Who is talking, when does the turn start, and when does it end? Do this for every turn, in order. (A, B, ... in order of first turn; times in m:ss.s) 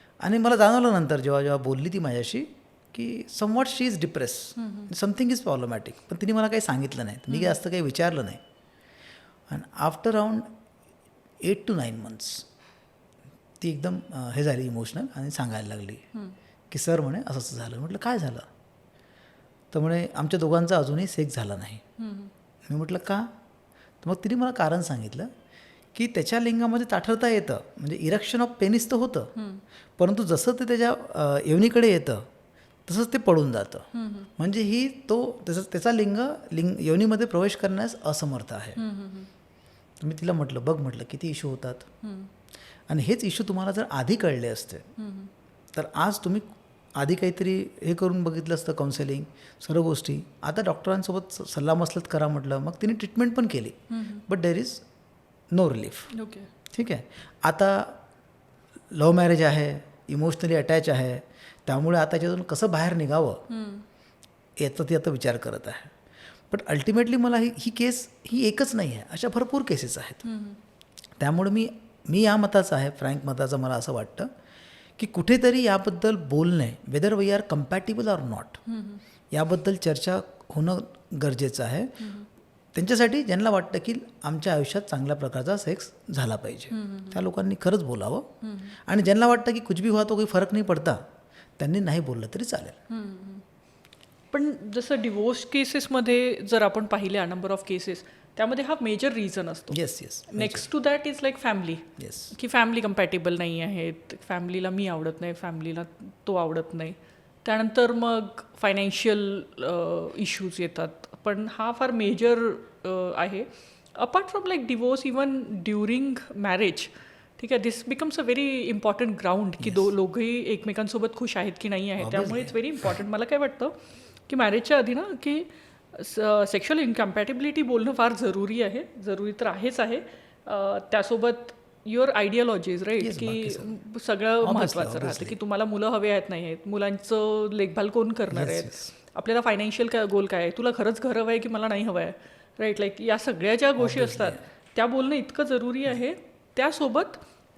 0:00.2-0:08.4 A
0:04.6-0:04.9 B
0:07.3-0:07.6 B
0:09.5-0:10.5 A
0:11.4-0:12.4 A
0:13.6-0:16.0 A
0:16.7-0:18.4 A
0:19.7-0:21.8 A
0:22.0-0:22.3 B
0:22.6-0:23.3 A
0:24.0-0:25.3 A
0:25.9-0:29.3 A
0:29.4-0:29.6 B
0:30.0-0:32.3 A
0:32.9-0:38.8 A
0:33.9-0:34.3 B
0:38.8-0:39.3 B
0:40.0-0:41.9 A
0:42.0-0:42.3 B
0:42.9-0:44.9 A
0:45.0-0:45.3 B
0:45.7-0:46.4 A
0:47.0-0:54.8 A
0:53.9-0:54.2 B
0:55.5-0:56.1 A
0:56.1-0:56.5 B
0:56.7-0:58.0 A
0:58.9-1:03.4 A
1:03.5-1:03.8 B
1:04.6-1:05.9 A
1:06.5-1:10.2 A
1:10.2-1:10.6 B
1:11.2-1:14.3 A
1:15.0-1:18.6 A
1:18.6-1:19.0 B
1:19.3-1:22.1 A
1:22.0-1:22.3 B
1:22.7-1:31.0 A
1:26.7-1:27.2 B
1:28.4-1:28.8 B
1:31.6-1:32.8 A
1:32.9-1:33.4 B
1:34.3-2:03.8 B
1:39.7-1:40.7 A
1:42.0-1:42.3 A
1:59.6-1:59.9 A
2:02.0-2:03.0 A
2:04.3-2:27.2 B
2:13.0-2:13.8 A
2:14.4-2:15.4 A
2:18.3-2:18.9 A
2:23.8-2:24.4 A